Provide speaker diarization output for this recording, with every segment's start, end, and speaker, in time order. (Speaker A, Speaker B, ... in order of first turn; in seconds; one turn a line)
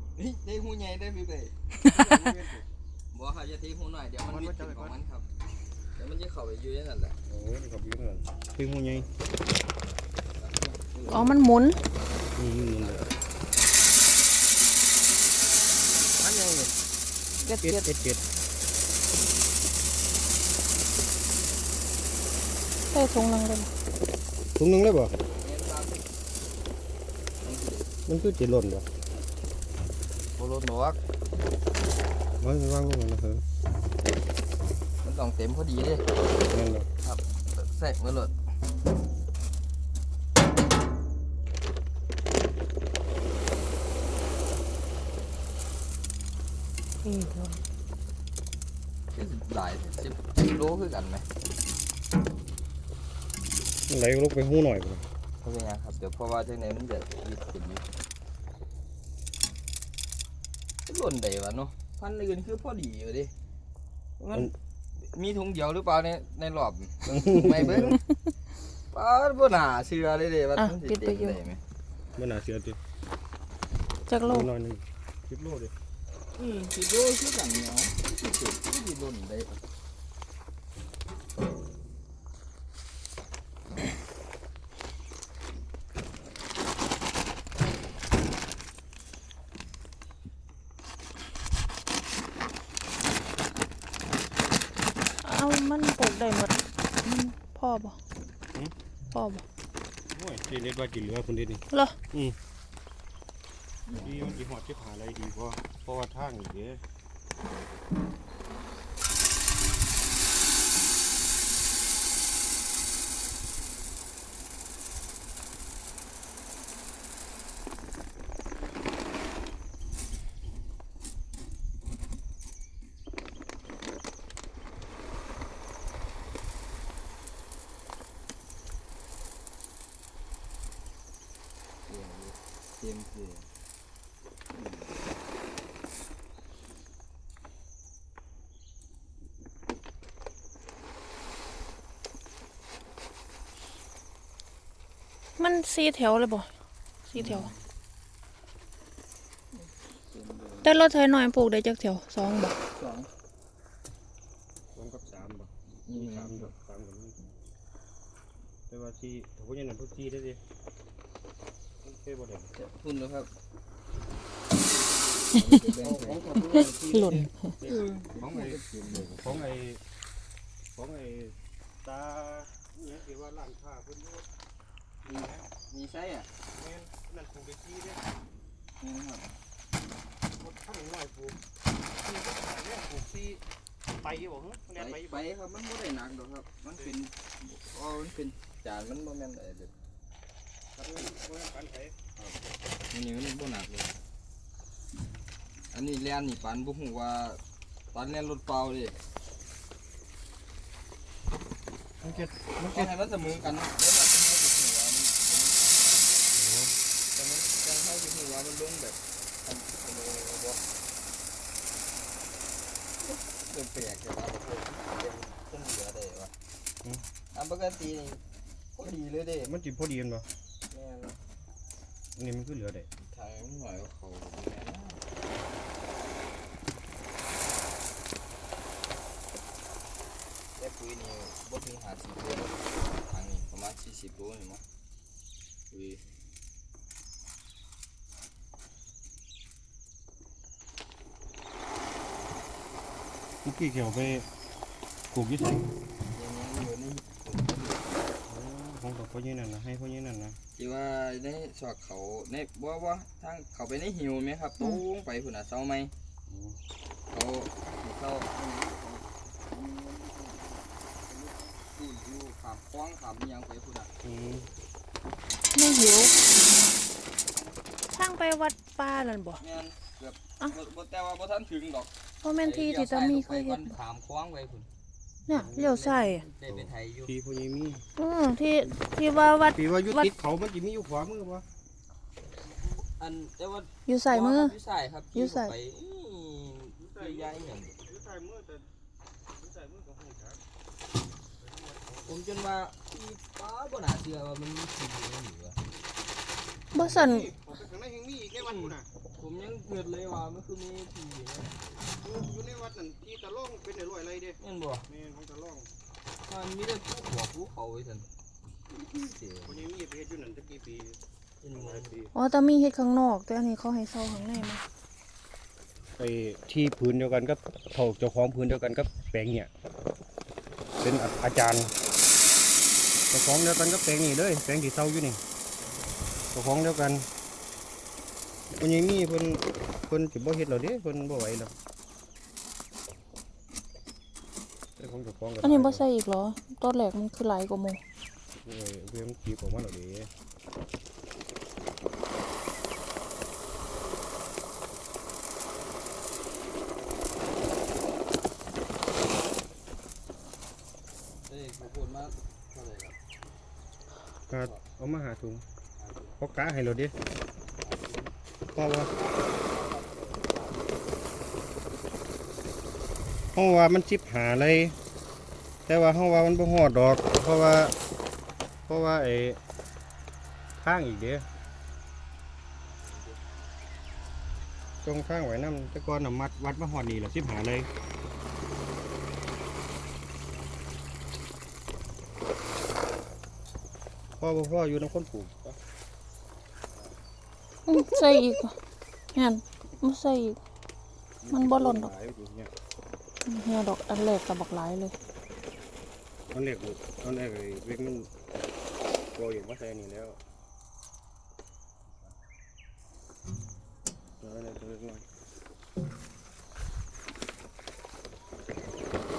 Speaker A: 0.2-1.5
Speaker B: 1.9-2.6
Speaker A: 3.1-5.3
Speaker B: 4.3-5.0
Speaker A: 6.0-7.2
Speaker B: 7.3-9.1
Speaker A: 10.4-13.2
Speaker C: 11.1-11.8
Speaker B: 12.4-13.1
Speaker A: 16.0-16.7
Speaker C: 17.4-17.9
Speaker B: 17.6-18.2
Speaker C: 22.9-23.7
Speaker B: 24.6-25.2
Speaker A: 25.4-26.1
Speaker A: 27.4-28.0
Speaker B: 28.1-28.9
Speaker A: 30.4-31.0
Speaker B: 32.4-33.4
Speaker A: 35.0-36.1
Speaker B: 36.5-36.9
Speaker A: 37.0-38.3
Speaker C: 47.1-47.5
Speaker A: 49.1-51.3
Speaker B: 53.9-55.0
Speaker A: 55.4-57.8
Speaker A: 60.9-63.3
Speaker A: 64.2-68.0
Speaker B: 67.1-68.0
Speaker A: 68.9-71.6
Speaker C: 70.6-71.4
Speaker B: 72.2-72.8
Speaker C: 74.1-74.5
Speaker B: 74.2-75.7
Speaker A: 76.4-79.6
Speaker C: 95.2-98.0
Speaker C: 99.1-99.4
Speaker B: 100.1-102.4
Speaker C: 101.7-102.0
Speaker A: 103.9-104.2
Speaker B: 104.0-106.8
Speaker A: 131.9-133.5
Speaker A: 134.5-135.1
Speaker C: 145.4-146.5
Speaker C: 147.1-147.5
Speaker B: 147.2-147.5
Speaker A: 149.5-150.9
Speaker C: 150.6-152.6
Speaker A: 152.7-153.1
Speaker B: 154.8-157.2
Speaker A: 155.9-156.5
Speaker B: 158.7-160.4
Speaker B: 161.8-162.5
Speaker A: 162.6-163.3
Speaker A: 165.3-166.4
Speaker B: 165.8-168.6
Speaker C: 166.5-167.5
Speaker A: 167.6-169.6
Speaker B: 169.2-169.8
Speaker B: 170.8-174.3
Speaker B: 175.1-175.4
Speaker A: 175.1-176.3
Speaker B: 176.6-178.0
Speaker A: 178.8-179.3
Speaker B: 180.4-181.4
Speaker B: 182.0-183.4
Speaker B: 184.0-185.3
Speaker A: 184.8-189.7
Speaker B: 190.8-192.0
Speaker A: 192.9-193.9
Speaker A: 195.7-197.4
Speaker A: 197.9-199.0
Speaker B: 202.0-203.0
Speaker A: 202.6-206.1
Speaker B: 206.3-206.7
Speaker A: 207.1-210.6
Speaker A: 213.0-216.3
Speaker A: 217.3-218.2
Speaker A: 218.8-219.5
Speaker B: 219.4-220.3
Speaker A: 220.7-221.2
Speaker B: 222.2-222.9
Speaker A: 223.0-225.0
Speaker A: 230.6-234.6
Speaker A: 235.7-236.0
Speaker B: 243.4-244.3
Speaker B: 245.1-245.7
Speaker A: 246.1-248.1
Speaker B: 248.3-250.4
Speaker A: 250.6-255.9
Speaker B: 256.3-256.6
Speaker A: 257.1-263.9
Speaker B: 264.0-264.5
Speaker C: 265.6-266.1
Speaker C: 267.9-269.4
Speaker A: 269.4-274.7
Speaker C: 272.2-273.7
Speaker C: 275.3-276.2
Speaker B: 275.3-275.7
Speaker A: 275.3-277.1
Speaker B: 276.5-277.8
Speaker C: 278.0-280.1
Speaker B: 279.6-281.4
Speaker A: 282.4-287.8
Speaker C: 283.9-284.5
Speaker C: 285.1-285.5
Speaker B: 286.8-288.7
Speaker B: 289.4-290.4
Speaker B: 291.4-292.2
Speaker A: 292.1-295.6
Speaker C: 296.7-297.3
Speaker B: 296.8-298.9
Speaker A: 298.4-301.6
Speaker B: 301.9-305.7
Speaker A: 304.4-304.9
Speaker A: 306.3-308.1
Speaker A: 308.7-309.7
Speaker B: 309.0-311.0
Speaker A: 311.4-312.1
Speaker B: 311.5-312.1
Speaker C: 312.1-314.6
Speaker B: 316.0-319.5
Speaker B: 320.8-321.7
Speaker B: 323.1-325.2
Speaker B: 326.3-327.1
Speaker B: 328.5-331.5
Speaker B: 334.8-335.8
Speaker C: 335.4-337.8
Speaker B: 338.4-340.1
Speaker A: 351.3-353.0
Speaker B: 354.3-355.4
Speaker A: 355.8-356.1
Speaker B: 356.2-356.9
Speaker A: 357.6-358.1
Speaker B: 358.6-358.9
Speaker A: 358.7-361.0
Speaker B: 363.4-364.8
Speaker B: 365.7-367.8
Speaker B: 368.7-369.4
Speaker B: 370.6-371.3
Speaker A: 372.8-373.2
Speaker B: 374.8-377.7
Speaker B: 384.2-385.6
Speaker C: 387.7-388.6
Speaker C: 389.1-390.4
Speaker B: 391.2-392.5
Speaker C: 391.3-391.9
Speaker C: 393.3-394.9
Speaker B: 396.3-398.3
Speaker B: 399.1-400.2
Speaker B: 404.2-405.0